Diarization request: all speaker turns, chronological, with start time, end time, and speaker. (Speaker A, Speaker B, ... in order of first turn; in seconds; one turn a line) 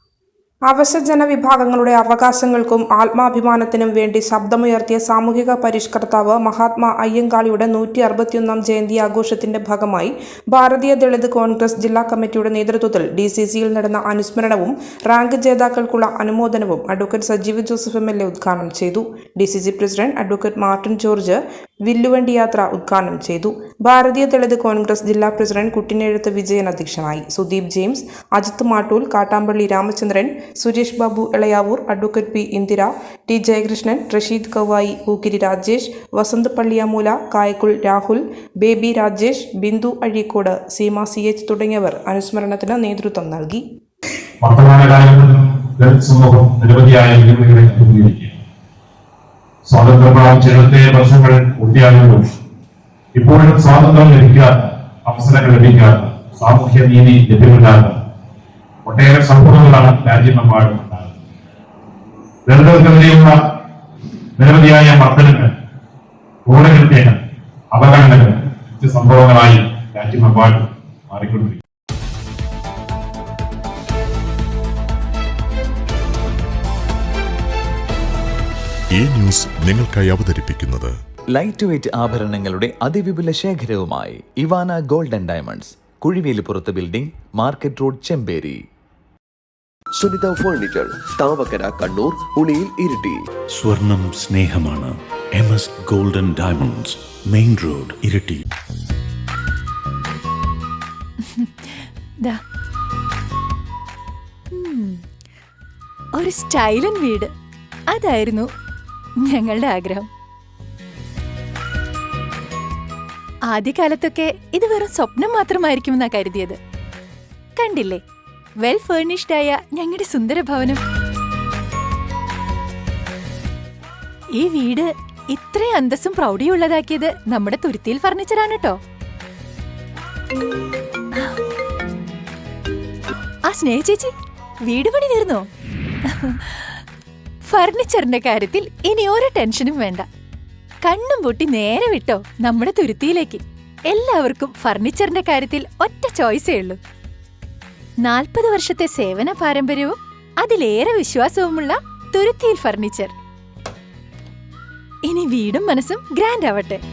Speaker A: 0.7-43.6
Speaker B: 44.4-48.4
Speaker B: 49.7-52.2
Speaker B: 53.2-58.0
Speaker B: 58.8-61.1
Speaker B: 62.5-63.4
Speaker B: 64.4-65.5
Speaker B: 66.5-67.2
Speaker B: 67.7-71.6
Speaker C: 78.9-81.0
Speaker D: 81.3-88.6
Speaker E: 90.0-93.2
Speaker F: 93.5-98.4
Speaker G: 101.2-102.4
Speaker G: 104.5-105.0
Speaker G: 106.2-107.3
Speaker G: 107.9-108.5
Speaker G: 109.2-110.1
Speaker G: 113.5-116.6
Speaker G: 117.6-118.0
Speaker G: 118.6-120.8
Speaker G: 124.3-128.8
Speaker G: 133.4-135.5
Speaker G: 136.1-136.8
Speaker G: 137.4-140.1
Speaker G: 140.8-146.8
Speaker G: 148.0-153.1
Speaker G: 155.0-156.8